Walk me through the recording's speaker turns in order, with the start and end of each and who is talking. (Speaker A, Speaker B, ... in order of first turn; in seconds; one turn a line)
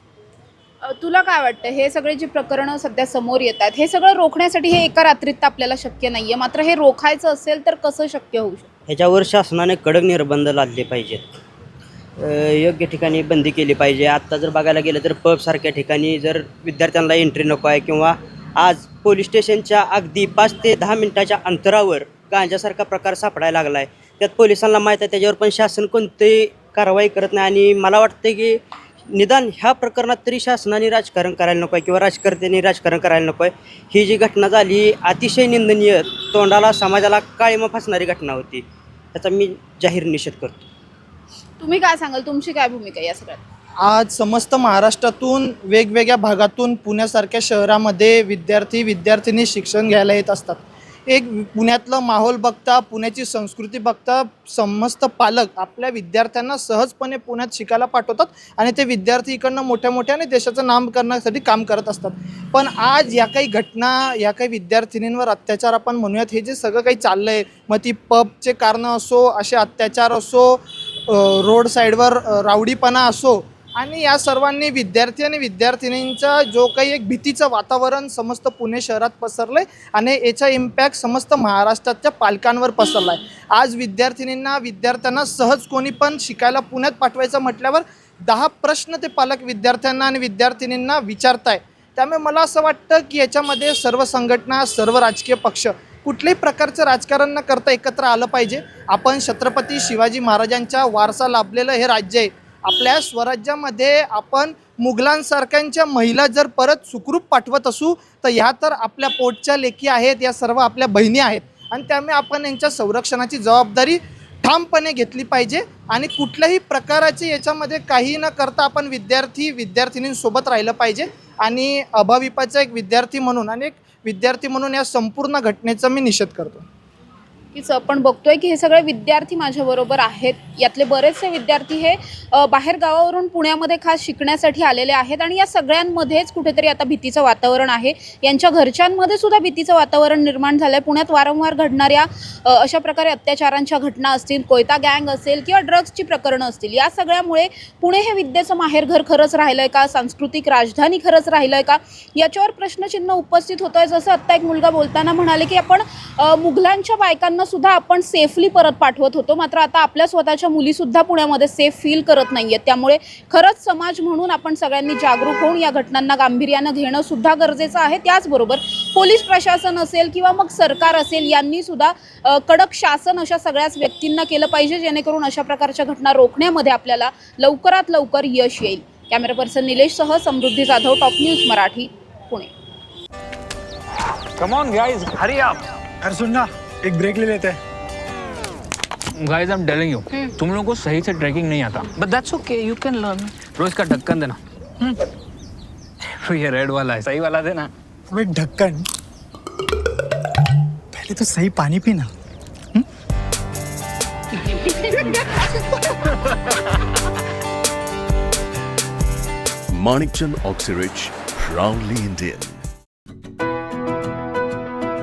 Speaker A: 0.8-8.7
Speaker B: 8.9-11.2
Speaker B: 12.2-28.6
Speaker B: 29.1-38.6
Speaker B: 39.1-40.6
Speaker A: 41.6-43.4
Speaker C: 43.8-126.6
Speaker A: 127.5-182.5
Speaker D: 184.4-185.6
Speaker E: 186.0-187.6
Speaker D: 189.2-194.4
Speaker D: 196.2-197.7
Speaker E: 198.1-198.8
Speaker E: 200.9-202.1
Speaker B: 210.0-210.6
Speaker B: 211.2-212.0